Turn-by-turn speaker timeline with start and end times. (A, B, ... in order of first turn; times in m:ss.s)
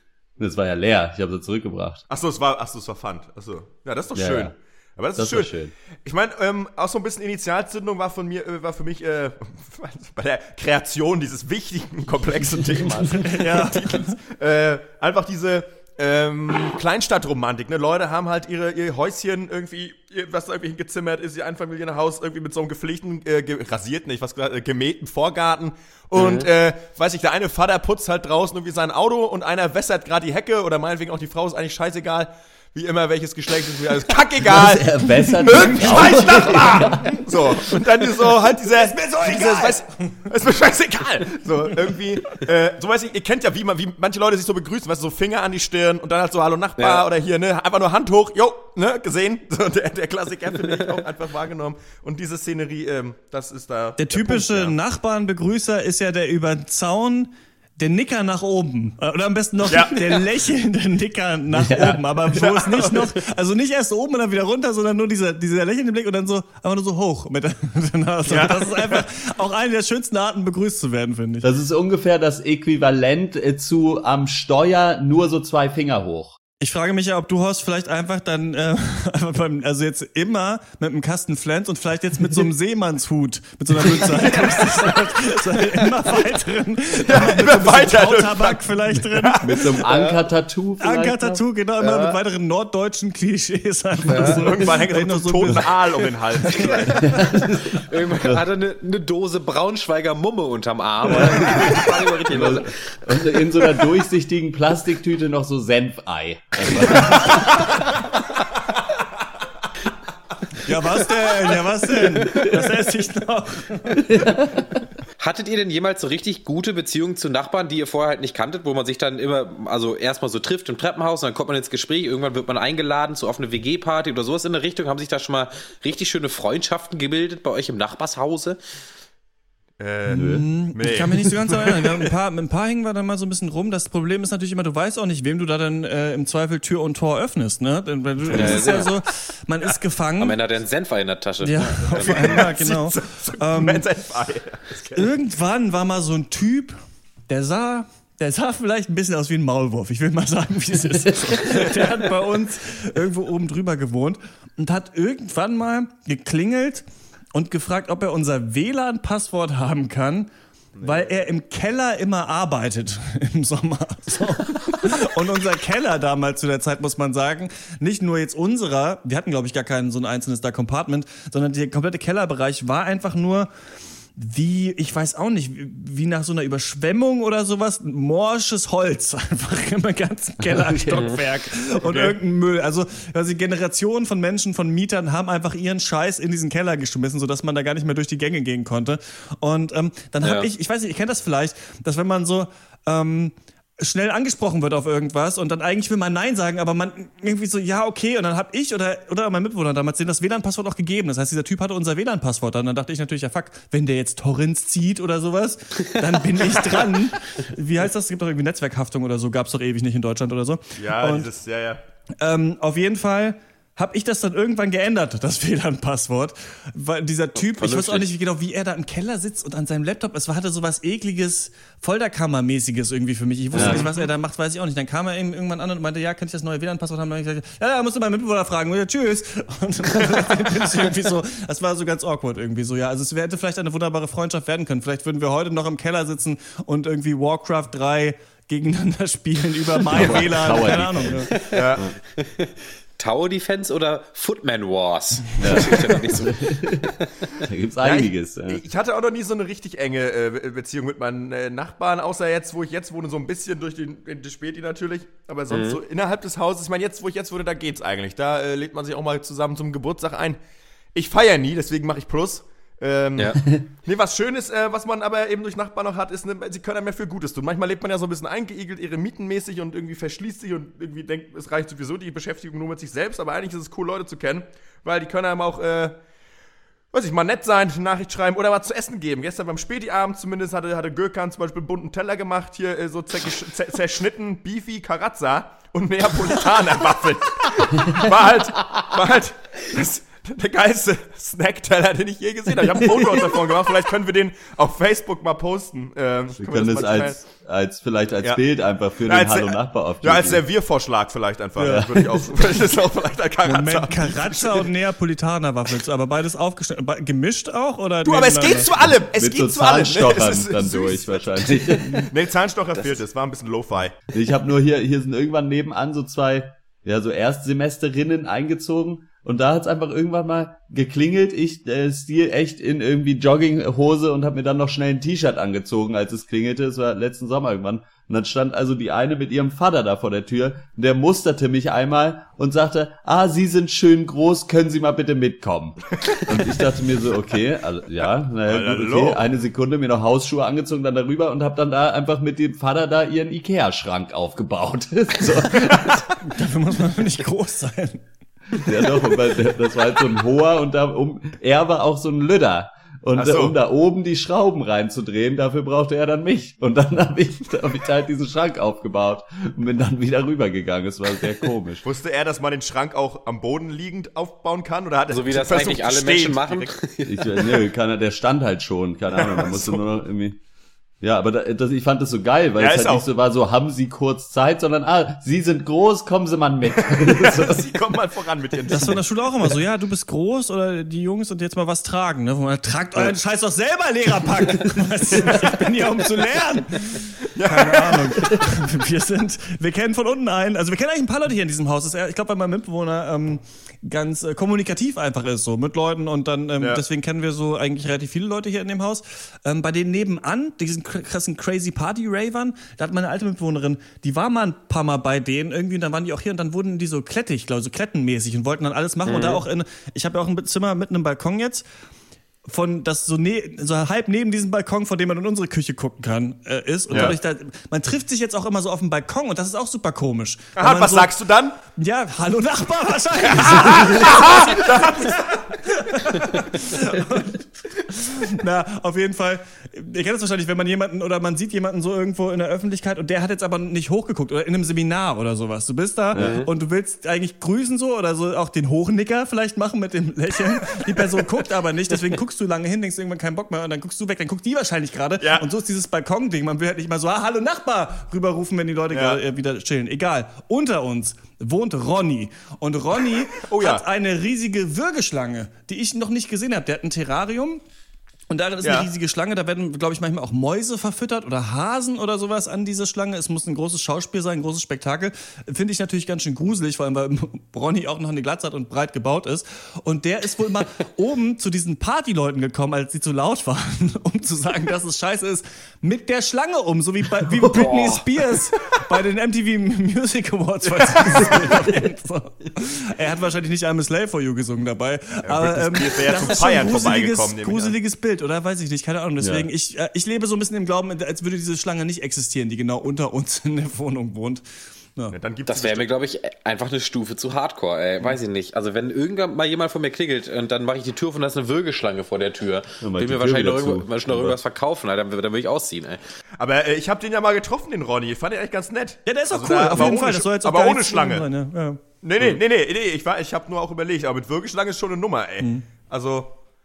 0:00.4-0:02.0 A
0:02.1-0:54.8 B
0:04.1-0:04.5 A
0:05.1-0:05.7 A
0:13.1-0:14.2 C
0:26.1-0:26.5 D
0:34.4-0:37.2 A
0:35.4-0:37.3 C
0:38.8-0:39.8 C
0:46.8-0:47.0 D
0:54.0-1:11.5 C
0:59.7-1:00.0 B
1:01.5-1:02.0 A
1:02.3-1:03.1 B
1:08.2-1:09.0 B
1:11.4-1:16.4 A
1:16.6-1:29.7 C
1:24.0-1:24.9 B
1:27.0-1:29.7 B
1:29.4-1:31.4 A
1:29.8-1:30.2 D
1:30.8-1:37.2 C
1:31.8-1:32.2 D
1:34.1-1:34.5 D
1:34.1-1:37.2 B
1:37.0-1:38.4 A
1:37.6-1:43.2 D
1:41.1-1:47.6 A
1:41.1-1:42.6 B
1:50.6-1:54.4 C
1:52.2-1:52.5 A
1:54.0-1:54.4 A
1:55.2-2:08.6 D
2:09.8-2:12.1 B
2:10.1-2:20.4 C
2:10.1-2:10.5 A
2:18.3-2:18.9 D
2:18.3-2:18.7 A
2:20.2-2:22.5 D
2:21.4-2:23.8 C
2:22.0-2:25.1 B
2:24.9-2:26.8 C
2:27.3-2:53.5 C
2:40.8-2:41.1 B
2:54.1-3:31.3 C
3:00.4-3:01.1 A
3:00.9-3:01.2 D
3:01.8-3:02.2 B
3:10.2-3:10.5 D
3:30.8-3:31.8 B
3:32.2-4:01.3 C
3:37.4-3:38.0 D
3:43.5-3:43.9 A
3:59.9-4:01.9 A
4:01.3-4:07.3 D
4:01.5-4:01.8 B
4:05.4-4:06.9 A
4:07.4-4:08.6 A
4:07.8-4:20.4 B
4:15.5-4:15.8 D
4:20.9-4:36.0 B
4:36.9-4:57.2 B
4:52.8-4:53.4 A
4:56.4-5:00.4 A
4:59.0-5:04.7 B
5:01.6-5:02.3 A
5:03.4-5:08.8 C
5:08.0-5:14.0 B
5:09.1-5:12.1 A
5:14.1-5:46.0 A
5:38.4-5:39.2 B
5:45.6-5:46.0 B
5:46.2-5:48.0 C
5:48.5-6:01.8 A
5:53.1-5:53.6 B
6:01.8-6:06.7 B
6:05.1-6:07.6 D
6:07.0-6:10.4 A
6:09.1-6:09.8 B
6:11.0-6:17.7 A
6:12.6-6:13.1 B
6:16.9-6:19.0 B
6:18.7-6:51.6 C
6:25.2-6:25.5 B
6:27.3-6:28.3 B
6:49.0-6:49.4 D
6:52.5-7:37.6 C
6:56.9-6:57.1 B
7:00.6-7:01.6 B
7:03.3-7:05.3 B
7:16.1-7:16.4 A
7:16.1-7:16.5 D
7:25.2-7:25.5 B
7:28.9-7:29.2 B
7:33.4-7:33.8 B
7:38.3-8:14.4 C
7:38.6-7:38.9 B
7:57.3-7:57.9 A
7:57.5-7:58.0 D
8:00.6-8:01.8 B
8:05.2-8:07.8 B
8:09.2-8:09.5 A
8:15.1-8:15.9 B
8:15.4-8:26.0 D
8:22.8-8:24.4 A
8:26.4-8:31.3 B
8:29.0-8:31.8 C
8:32.0-8:36.4 B
8:35.4-8:35.6 C